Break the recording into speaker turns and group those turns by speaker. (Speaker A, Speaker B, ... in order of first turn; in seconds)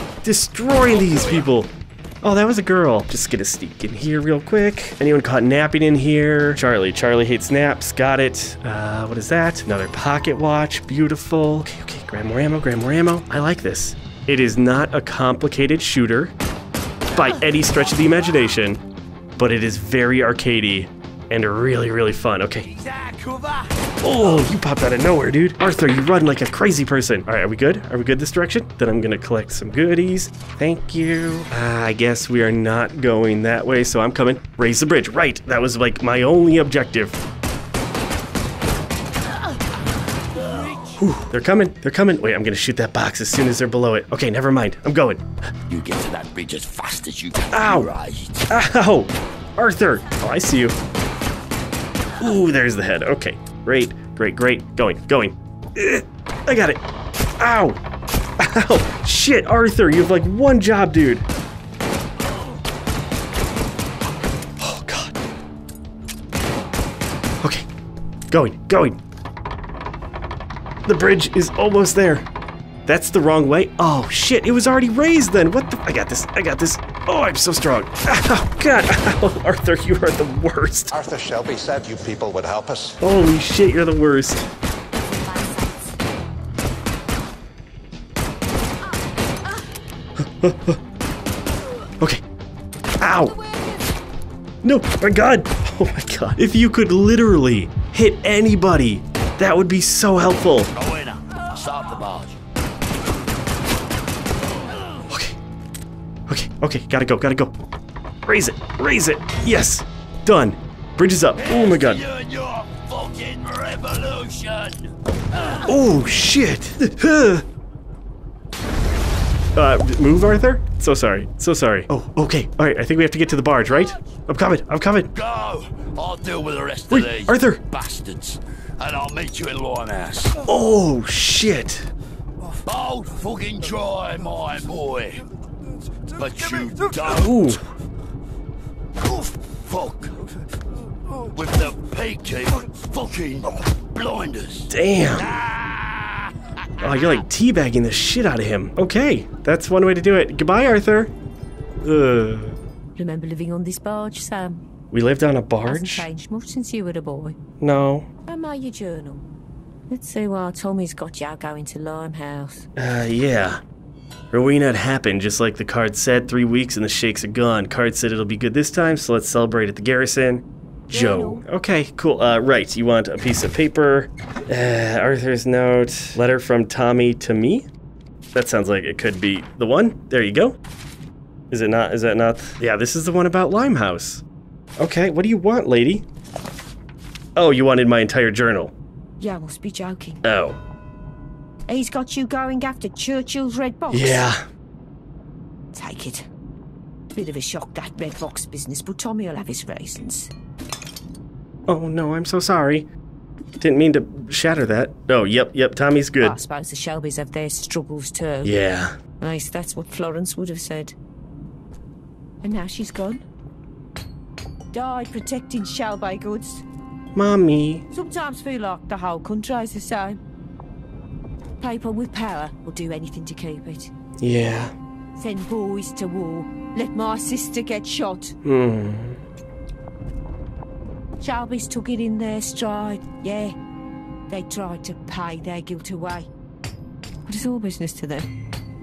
Speaker A: 0.2-16.3, 17.1-18.8, 19.4-22.7, 24.0-37.2, 41.0-45.3, 47.5-47.9, 48.5-50.7, 52.2-56.8, 57.4-57.8, 58.4-61.2, 64.6-65.2, 67.4-67.7, 68.3-69.0, 70.8-72.2, 72.8-80.9, 83.0-84.5, 90.2-90.8, 93.0-93.4, 94.6-100.7, 105.1-105.4, 106.3-107.5, 108.2-112.0, 115.6-117.4, 119.5-125.1, 126.9-127.6, 130.4-131.9, 137.0-137.6, 144.7-145.4, 146.8-151.1, 151.8-152.6, 154.9-156.1, 157.6-158.1, 162.8-163.6, 164.3-177.7, 178.3-180.6, 181.5-184.2, 184.8-186.0, 187.3-188.7, 190.2-190.6, 193.9-194.4, 201.7-202.9, 203.6-206.4, 208.4-208.9, 217.1-217.8, 224.2-224.7, 228.4-229.2
Speaker B: 45.7-48.5, 100.7-102.4, 111.4-115.7, 125.1-130.4, 132.6-135.2, 136.1-137.6, 139.0-140.2, 141.2-147.1
Speaker C: 80.9-83.0
Speaker D: 85.0-86.0, 152.9-154.6, 155.7-157.4, 158.3-159.2, 159.9-162.7, 170.9-171.4, 189.2-190.2, 191.7-194.3, 195.7-196.3, 197.1-200.3, 206.2-208.6, 209.2-210.9, 212.4-213.2, 214.7-216.6, 217.9-220.2, 221.6-223.9, 225.2-228.3, 231.2-233.6, 234.3-236.3, 237.2-238.3